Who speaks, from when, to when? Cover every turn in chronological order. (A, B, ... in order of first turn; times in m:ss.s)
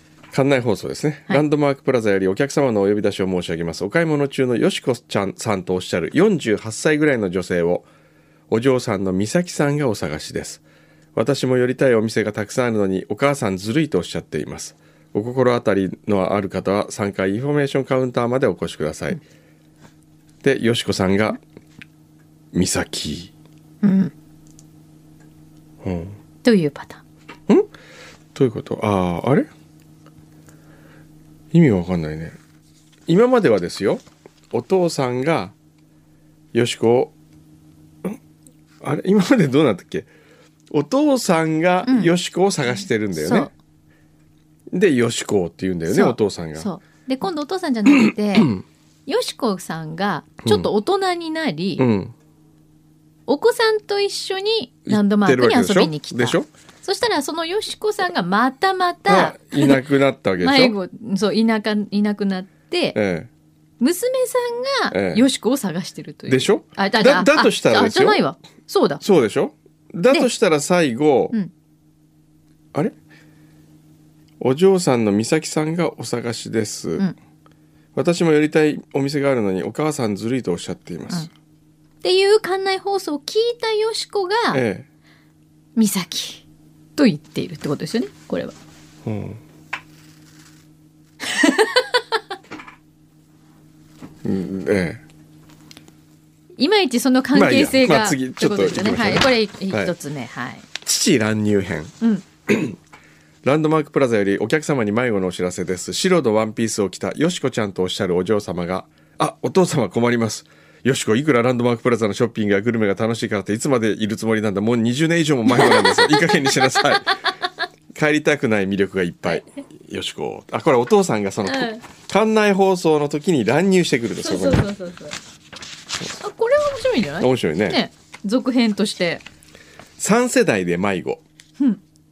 0:00.3-0:07.9 A
0:08.5-0:10.6 A
0:11.2-0:19.2 A
0:20.4-0:21.4 A
0:22.5-0:23.3 A
0:23.8-0:24.1 B
0:25.8-0:26.2 A
0:26.4-0:27.0 B
0:28.4-0:29.5 A
0:31.5-0:32.4 A
0:33.1-0:35.5 A
0:36.5-0:37.1 A
0:38.8-0:40.1 A
0:40.7-0:43.5 A
0:41.8-0:42.1 B
0:43.1-0:43.5 B
0:44.7-0:46.7 A
0:45.9-0:51.9 B
0:48.4-0:48.6 A
0:50.4-0:50.7 A
0:51.8-0:52.1 A
0:53.3-0:59.8 B
0:54.9-0:56.5 A
0:59.1-1:00.8 A
1:00.4-1:03.0 B
1:03.0-1:03.3 A
1:03.8-1:09.0 B
1:04.9-1:05.2 A
1:06.3-1:08.2 A
1:09.0-1:11.3 A
1:14.4-1:17.1 A
1:18.0-1:21.3 A
1:22.0-1:24.6 B
1:24.5-1:24.9 A
1:25.8-1:26.4 B
1:27.0-1:28.5 B
1:29.0-1:29.4 A
1:31.2-1:32.0 B
1:34.2-1:35.0 A
1:36.6-1:40.7 B
1:37.3-1:39.9 A
1:40.8-1:41.9 A
1:42.5-1:42.8 A
1:43.4-1:57.2 A
1:55.5-1:56.8 B
1:57.9-2:04.7 A
2:01.4-2:01.8 B
2:04.2-2:05.2 B
2:06.1-2:09.2 B
2:07.2-2:07.8 A
2:10.0-2:11.2 A